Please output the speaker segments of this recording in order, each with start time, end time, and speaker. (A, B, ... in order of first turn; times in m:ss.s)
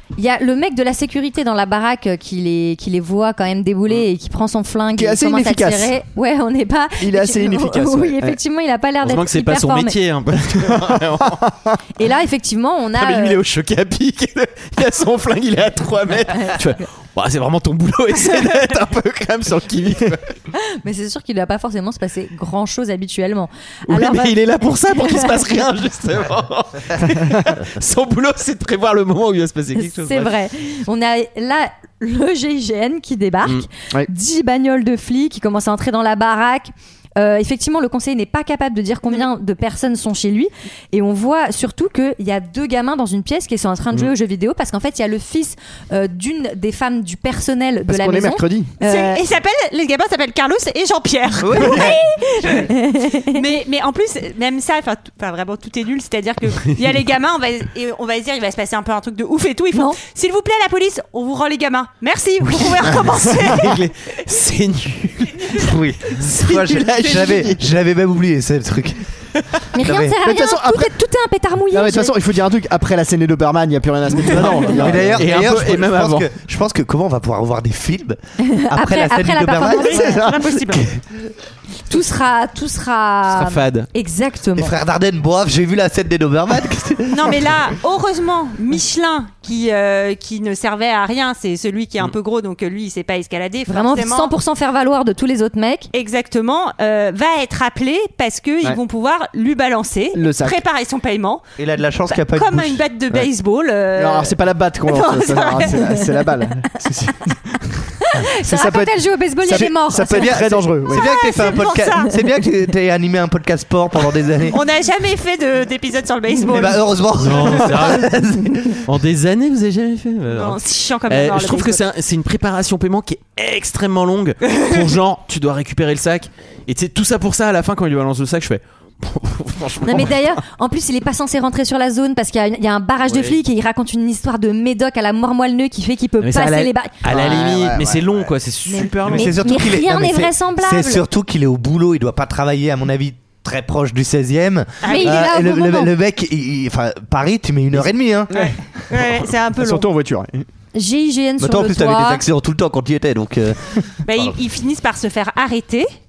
0:00.2-0:10.0 A
0:05.0-0:05.9 B
0:07.0-0:08.4 B
0:09.0-0:11.4 C
0:10.5-0:11.8 B
0:12.0-0:13.4 A
0:13.0-0:20.3 C
0:16.4-0:16.8 A
0:20.5-0:24.4 A
0:23.9-0:30.3 C
0:29.8-0:49.2 A
0:47.9-0:48.7 B
0:48.8-0:52.0 D
0:51.5-0:51.9 E
0:51.5-0:53.4 A
0:52.5-1:03.8 D
0:59.7-1:00.0 A
1:03.4-1:07.6 C
1:05.5-1:09.0 E
1:09.7-1:12.1 A
1:09.8-1:10.2 E
1:10.2-1:10.9 B
1:11.7-1:15.2 B
1:14.3-1:18.2 E
1:14.8-1:16.3 C
1:18.4-1:20.1 A
1:18.7-1:21.0 E
1:19.8-1:20.9 D
1:20.0-1:20.3 B
1:21.9-1:24.7 A
1:23.3-1:23.9 C
1:24.6-1:27.4 E
1:27.1-1:34.3 D
1:33.7-1:35.9 A
1:35.9-1:41.4 D
1:40.2-1:40.6 B
1:41.6-1:42.8 E
1:42.1-1:44.3 D
1:44.0-1:47.8 B
1:44.8-1:45.9 D
1:48.1-1:50.3 A
1:48.4-1:51.0 B
1:50.0-1:54.6 E
1:50.9-1:52.1 D
1:54.5-1:56.8 D
1:56.5-1:58.8 E
1:57.2-1:58.1 C
1:58.8-2:10.4 C
2:00.3-2:01.8 D
2:09.8-2:16.9 A
2:13.1-2:13.4 C
2:16.2-2:19.3 C
2:17.1-2:18.3 B
2:18.7-2:21.0 A
2:19.0-2:28.3 E
2:24.8-2:25.1 D
2:24.9-2:25.9 A
2:28.3-2:29.9 D
2:28.3-2:30.4 B
2:30.7-2:32.2 A
2:31.4-2:33.9 E
2:34.0-2:35.9 D